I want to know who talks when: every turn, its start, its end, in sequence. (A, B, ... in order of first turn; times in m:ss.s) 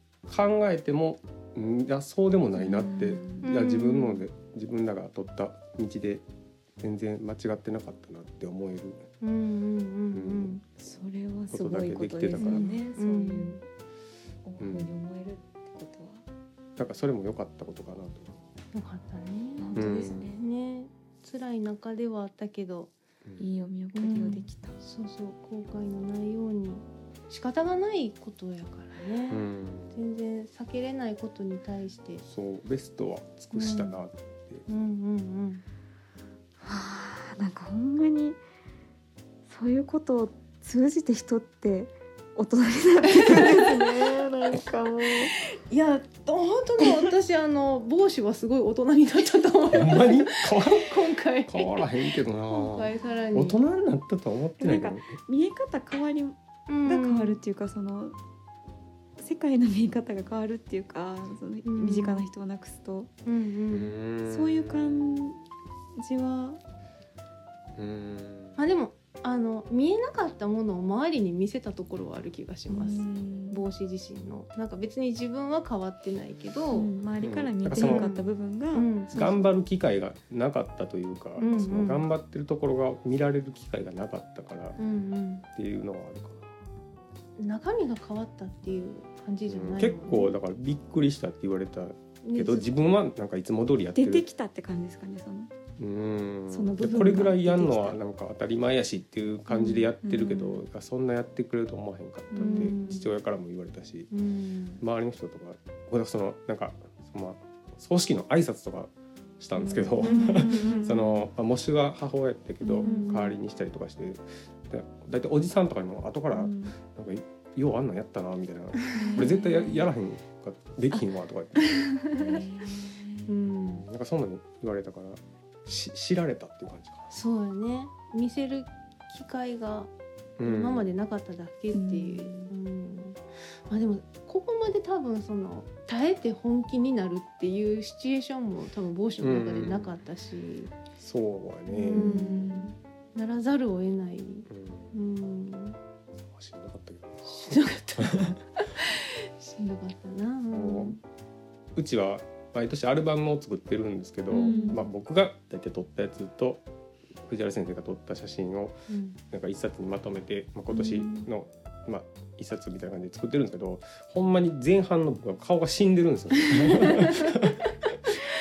0:00.3-0:06.2 A
0:02.6-0:03.5 B
0:03.4-0:04.3 C
0:06.8-0:09.0 A
0:09.2-0:10.6 C
0:10.1-0:10.5 A
0:10.8-0:13.7 B
0:11.5-0:12.7 A
0:12.4-0:13.6 C
0:14.4-0:16.2 B
0:14.6-0:14.9 A
0:16.8-0:18.3 A
0:18.7-0:22.9 C
0:19.6-0:20.4 B
0:19.8-0:20.3 A
0:23.4-0:24.8 B
0:24.0-0:29.4 C
0:29.3-0:29.9 A
0:29.9-0:32.2 C
0:32.2-0:34.6 A
0:33.5-0:33.9 C
0:34.7-0:35.6 C
0:36.6-0:38.4 B
0:39.5-0:45.3 B
0:43.2-0:43.8 C
0:45.7-0:51.9 C
0:49.7-0:50.9 A
0:51.5-0:55.1 A
0:52.5-0:53.6 C
0:54.6-0:58.2 B
0:56.7-0:57.4 C
0:59.2-1:03.1 B
1:01.6-1:02.3 C
1:03.3-1:03.9 C
1:03.7-1:05.3 A
1:04.2-1:05.4 B
1:06.0-1:06.6 B
1:07.8-1:08.6 A
1:08.6-1:16.9 C
1:12.7-1:13.7 B
1:16.7-1:19.6 B
1:17.2-1:18.1 A
1:17.7-1:19.2 C
1:19.1-1:24.8 A
1:21.4-1:22.1 C
1:24.8-1:25.4 C
1:25.6-1:26.5 A
1:27.4-1:30.4 C
1:29.5-1:34.2 A
1:32.2-1:32.7 C
1:34.0-1:35.5 B
1:35.8-1:44.1 A
1:36.5-1:38.0 B
1:39.5-1:40.6 B
1:42.3-1:43.0 B
1:42.4-1:43.1 C
1:44.1-1:44.8 C
1:44.8-2:01.7 A
1:49.6-1:51.3 B
1:50.0-1:51.0 C
1:52.6-1:53.1 B
1:52.8-1:53.4 C
1:56.3-1:56.8 B
1:58.9-1:59.9 B
1:59.0-1:59.3 C
2:01.6-2:03.3 B
2:03.3-2:03.8 C
2:03.7-2:07.1 A
2:07.1-2:09.9 C
2:10.4-2:10.9 A
2:10.4-2:20.7 C
2:11.7-2:12.5 B
2:19.2-2:19.9 A
2:21.0-2:22.1 A
2:21.7-2:25.8 C
2:21.9-2:22.7 B
2:24.5-2:24.9 A
2:26.2-2:28.4 A
2:27.3-2:28.9 C
2:29.4-2:31.0 C
2:30.5-2:31.0 A
2:31.8-2:36.6 A
2:34.3-2:34.8 B
2:34.4-2:34.8 C
2:37.2-2:38.8 A
2:38.9-2:39.2 C
2:39.3-2:48.2 A
2:40.7-2:41.3 B
2:46.9-2:47.2 C